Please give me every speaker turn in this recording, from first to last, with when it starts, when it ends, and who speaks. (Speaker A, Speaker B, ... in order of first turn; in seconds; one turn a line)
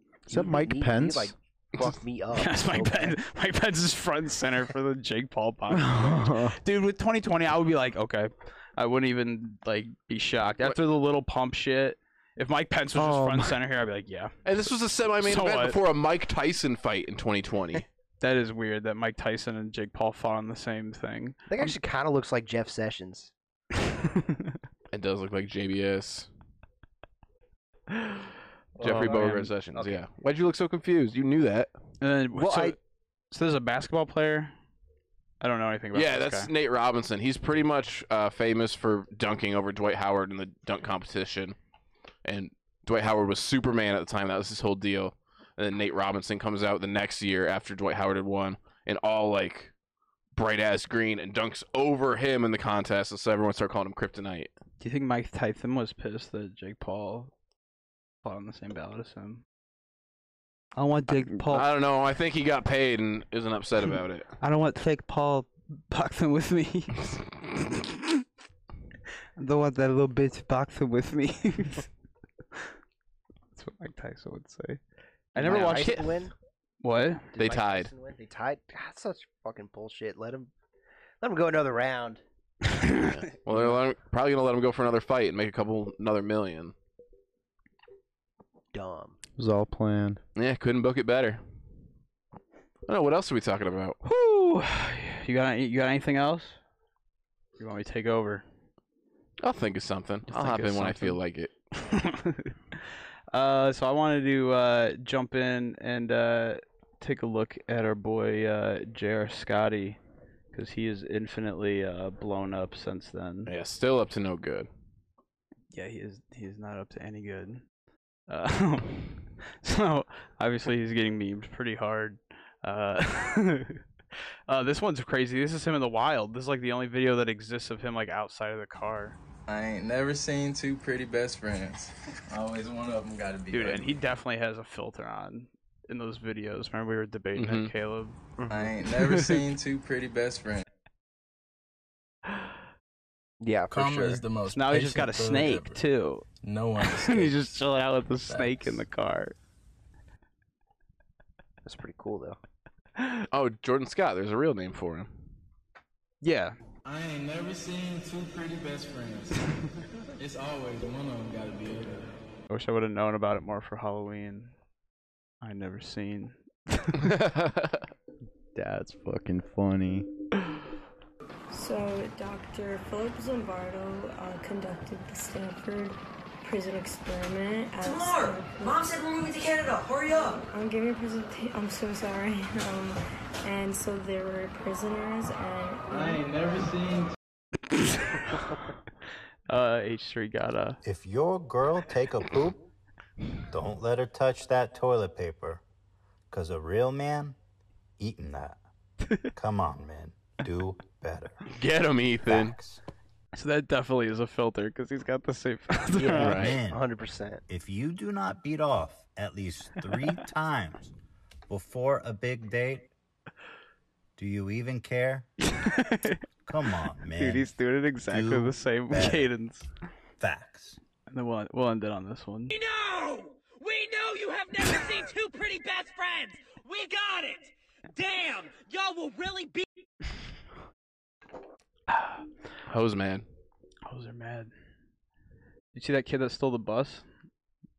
Speaker A: 0.3-3.2
Speaker B: 0.3-1.3
Speaker C: 2.3-14.4
Speaker B: 5.7-6.6
Speaker B: 12.9-13.6
Speaker D: 14.4-17.9
Speaker C: 15.2-15.8
Speaker C: 18.2-21.7
Speaker A: 21.5-23.3
Speaker C: 23.8-24.6
Speaker D: 24.9-26.3
Speaker C: 27.9-28.3
Speaker A: 28.8-30.0
Speaker D: 28.8-31.7
Speaker C: 28.8-29.5
Speaker C: 32.0-32.8
Speaker A: 32.4-32.8
Speaker C: 33.3-34.5
Speaker C: 35.4-36.5
Speaker D: 35.9-41.6
Speaker D: 42.2-49.7
Speaker D: 50.4-54.5
Speaker C: 54.8-57.3
Speaker C: 58.2-59.4
Speaker C: 60.8-61.6
Speaker D: 61.5-64.3
Speaker C: 64.4-67.1
Speaker C: 67.6-68.2
Speaker C: 69.4-71.9
Speaker C: 73.6-74.8
Speaker C: 75.3-76.3
Speaker A: 75.4-76.3
Speaker D: 75.5-76.0
Speaker C: 76.8-77.3
Speaker A: 77.3-80.5
Speaker D: 77.4-77.9
Speaker A: 81.2-82.2
Speaker C: 82.7-83.1
Speaker D: 83.0-86.7
Speaker A: 88.7-89.2
Speaker B: 89.4-90.2
Speaker D: 90.4-91.4
Speaker D: 92.9-94.0
Speaker C: 94.0-96.6
Speaker C: 97.6-98.4
Speaker D: 99.4-101.5
Speaker C: 100.3-101.2
Speaker C: 101.7-110.0
Speaker C: 110.5-113.5
Speaker D: 113.5-114.7
Speaker C: 115.7-117.6
Speaker C: 118.3-123.8
Speaker C: 124.5-129.2
Speaker E: 129.5-134.1
Speaker C: 133.5-138.2
Speaker D: 137.4-137.7
Speaker A: 138.4-138.7
Speaker E: 138.5-140.6
Speaker C: 138.9-139.4
Speaker A: 143.4-144.2
Speaker E: 143.7-145.8
Speaker C: 144.5-146.3
Speaker E: 146.4-147.4
Speaker C: 146.8-149.3
Speaker E: 148.3-148.8
Speaker A: 151.6-152.4
Speaker D: 153.3-155.1
Speaker C: 156.2-156.6
Speaker E: 156.8-159.4
Speaker E: 160.2-162.1
Speaker C: 162.5-164.5
Speaker C: 165.4-167.1
Speaker D: 167.0-167.8
Speaker B: 168.6-170.1
Speaker F: 171.5-178.9
Speaker G: 177.8-180.4
Speaker F: 180.1-186.2
Speaker E: 185.9-187.2
Speaker C: 187.8-188.4
Speaker C: 189.5-190.8
Speaker H: 190.8-192.7
Speaker H: 193.5-195.6
Speaker H: 196.3-197.4
Speaker H: 198.0-198.6
Speaker H: 199.3-201.4
Speaker D: 201.5-202.6
Speaker H: 202.3-202.8
Speaker C: 203.3-206.4
Speaker A: 205.9-207.4
Speaker D: 206.2-206.6
Speaker H: 206.2-206.8
Speaker H: 207.5-210.9
Speaker H: 211.5-212.9
Speaker H: 214.2-215.2
Speaker C: 215.4-216.2
Speaker H: 216.5-217.5
Speaker C: 217.2-219.7
Speaker H: 218.1-219.3
Speaker H: 220.2-220.8
Speaker C: 221.1-222.5
Speaker I: 222.5-229.7
Speaker C: 231.9-232.2
Speaker D: 232.7-233.3
Speaker C: 233.9-234.5
Speaker C: 235.7-237.1